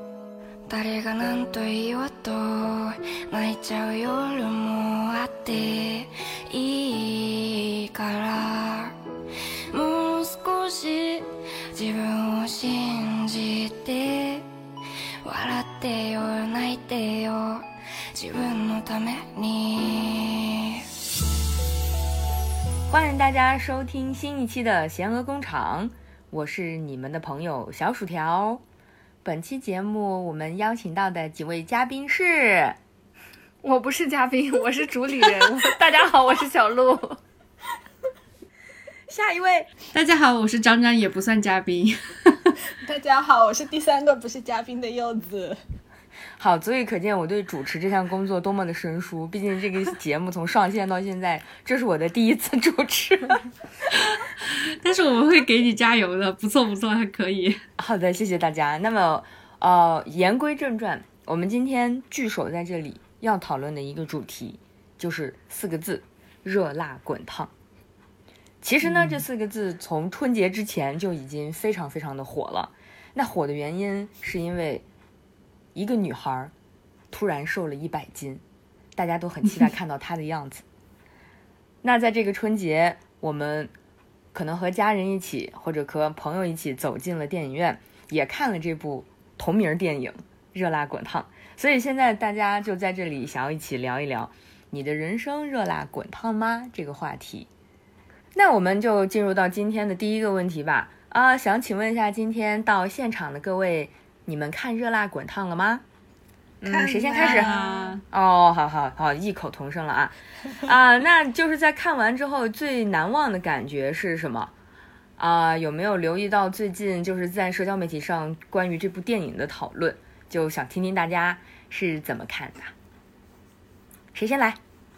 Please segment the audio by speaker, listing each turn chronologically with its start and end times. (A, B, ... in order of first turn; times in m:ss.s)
0:00.7-0:08.9 A
0:09.7-0:14.4 A
0:15.2-0:20.8 A
0:22.9-0:28.6 B
0:29.2-0:32.8 B
0:33.6-0:37.2 C
0:39.1-0:39.7 B
0:39.9-0:42.5 D
0:42.8-0:45.6 E
0:46.4-0:53.5 B
0:53.9-0:57.6 D
0:57.8-1:07.5 B
1:08.6-1:14.8 B
1:08.8-1:09.2 D
1:15.8-1:16.5 B
1:17.1-1:18.4 B
1:19.0-1:20.6 B
1:21.8-1:23.7 B
1:24.3-1:37.5 B
1:38.4-1:45.8 B
1:46.6-1:47.6 B
1:46.6-1:47.9 E
1:47.1-1:48.0 D
1:48.1-1:54.5 B
1:55.2-2:02.8 B
2:04.1-2:04.6 B